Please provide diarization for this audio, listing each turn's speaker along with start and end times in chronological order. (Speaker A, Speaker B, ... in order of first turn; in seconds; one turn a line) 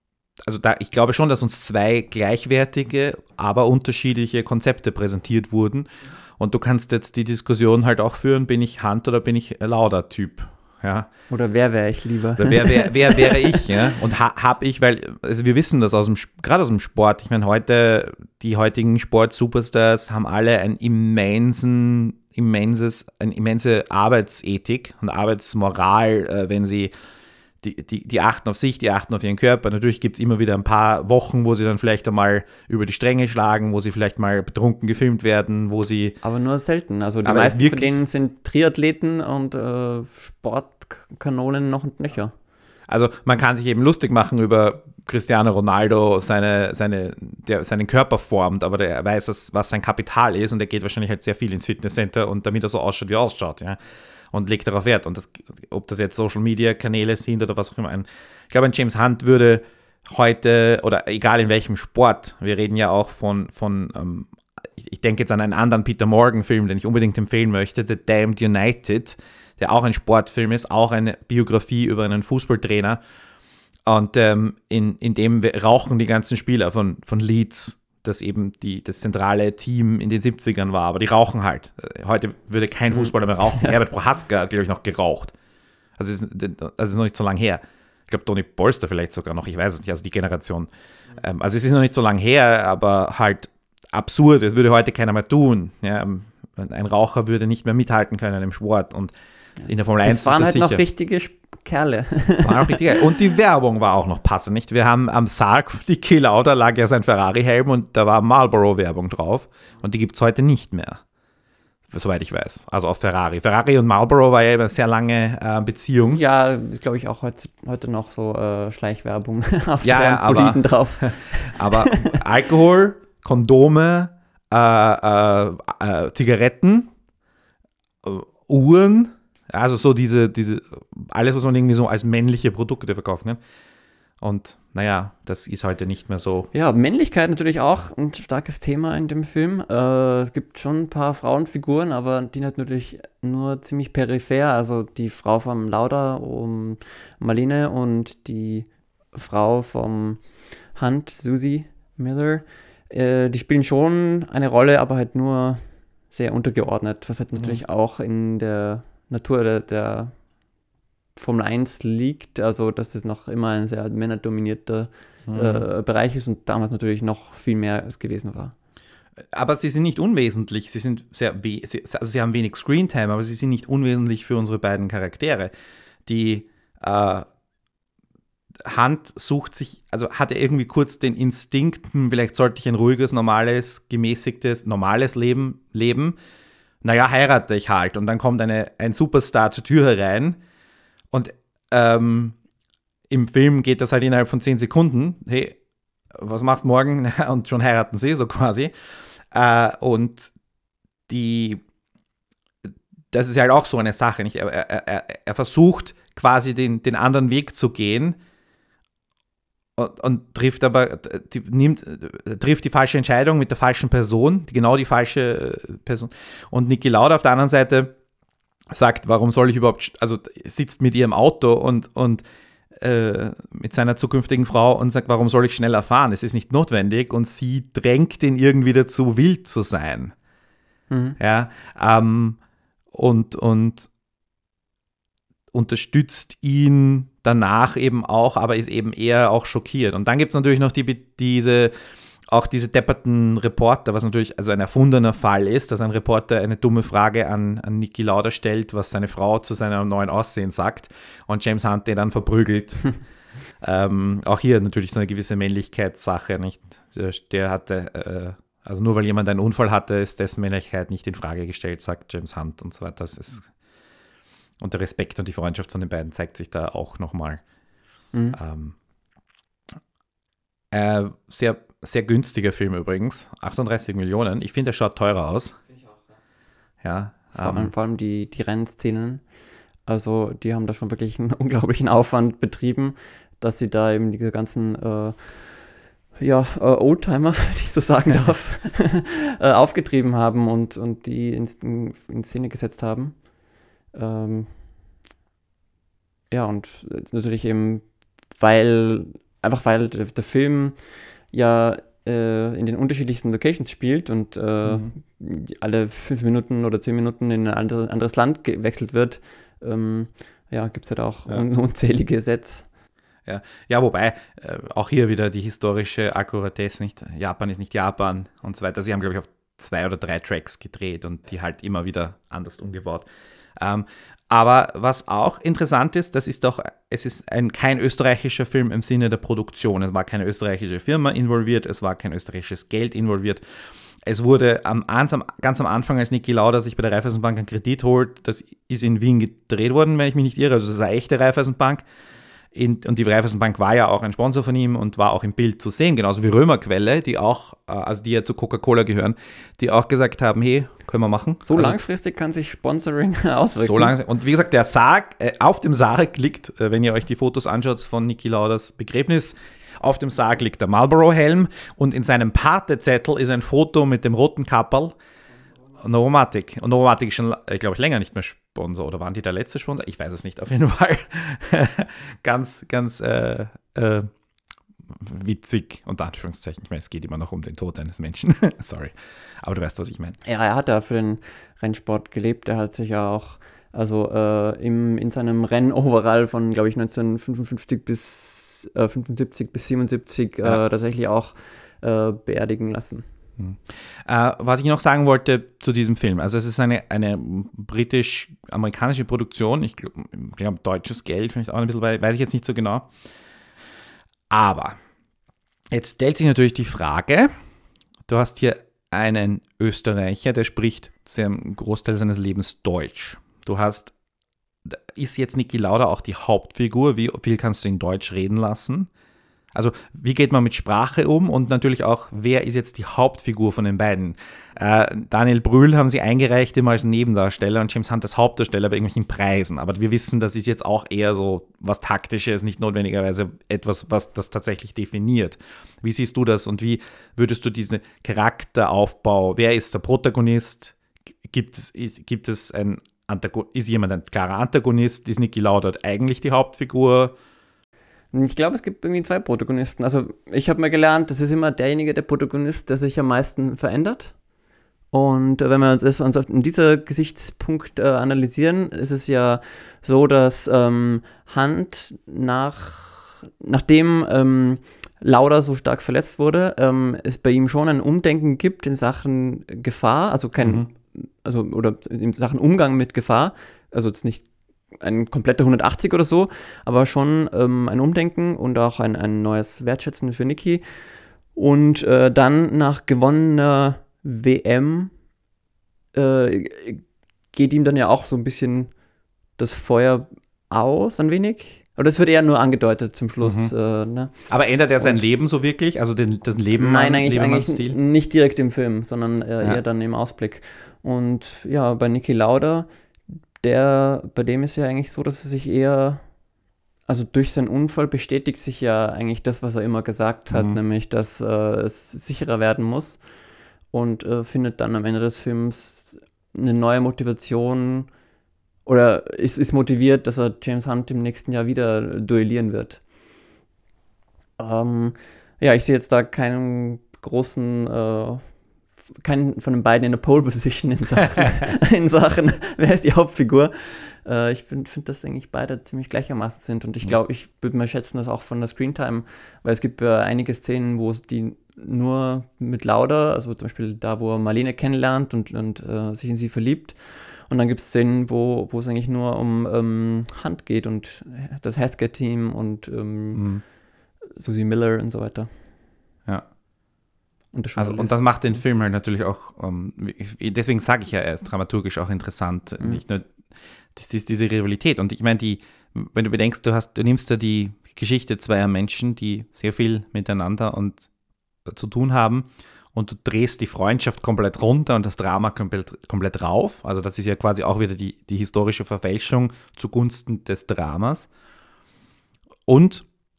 Speaker A: 0.4-11.1
Speaker B: 11.3-13.6
Speaker A: 12.4-26.9
Speaker A: 27.6-36.2
Speaker B: 36.2-42.3
Speaker A: 37.2-38.0
Speaker A: 42.9-53.8
Speaker A: 54.3-73.0
Speaker A: 73.8-85.3
Speaker B: 82.9-83.7
Speaker A: 86.0-99.1
Speaker B: 99.7-103.0
Speaker A: 99.7-100.8
Speaker A: 102.4-111.0
Speaker A: 111.9-116.2
Speaker B: 116.1-122.2
Speaker A: 119.8-126.9
Speaker A: 128.0-133.4
Speaker A: 134.2-136.5
Speaker B: 136.5-150.2
Speaker B: 150.7-160.1
Speaker B: 161.2-168.5
Speaker A: 165.3-165.7
Speaker A: 169.3-175.5
Speaker A: 176.1-177.3
Speaker A: 178.6-186.2
Speaker A: 186.8-190.4
Speaker A: 191.1-192.3
Speaker A: 193.1-195.6
Speaker A: 196.1-198.7
Speaker A: 199.3-200.3
Speaker A: 201.1-201.6
Speaker A: 203.1-208.2
Speaker A: 209.8-217.9
Speaker A: 218.7-222.2
Speaker A: 222.8-230.1
Speaker B: 230.9-231.2
Speaker A: 231.2-232.4
Speaker A: 232.9-233.9
Speaker A: 235.5-241.7
Speaker A: 242.3-253.0
Speaker A: 253.6-263.5
Speaker A: 264.6-267.4
Speaker B: 268.1-268.4
Speaker A: 268.3-268.8
Speaker A: 270.7-275.6
Speaker A: 276.8-277.7
Speaker B: 277.4-279.2
Speaker B: 279.9-285.6
Speaker B: 286.2-293.2
Speaker B: 293.9-294.5
Speaker B: 296.3-312.7
Speaker A: 304.6-304.9
Speaker A: 313.2-333.4
Speaker A: 334.0-341.8
Speaker A: 342.5-351.8
Speaker B: 351.4-353.9
Speaker A: 353.6-364.9
Speaker A: 365.8-374.1
Speaker A: 374.9-380.2
Speaker B: 380.2-393.0
Speaker A: 393.4-402.9
Speaker A: 404.3-404.8
Speaker A: 405.7-407.3
Speaker A: 408.1-413.9
Speaker A: 414.6-418.9
Speaker A: 419.5-447.1
Speaker B: 448.1-454.1
Speaker B: 454.9-474.2
Speaker A: 470.4-470.7
Speaker B: 474.8-480.8
Speaker B: 481.3-484.9
Speaker B: 485.9-488.7
Speaker B: 489.4-494.3
Speaker A: 493.2-493.5
Speaker A: 494.3-497.8
Speaker B: 496.6-502.7
Speaker B: 503.4-506.0
Speaker B: 506.9-513.0
Speaker A: 510.3-510.6
Speaker B: 513.7-517.9
Speaker B: 518.6-522.8
Speaker B: 524.4-528.2
Speaker B: 529.0-553.3
Speaker A: 553.1-553.4
Speaker B: 554.1-555.3
Speaker B: 557.3-558.1
Speaker A: 557.6-563.1
Speaker A: 563.7-570.9
Speaker A: 571.4-581.1
Speaker A: 582.5-582.9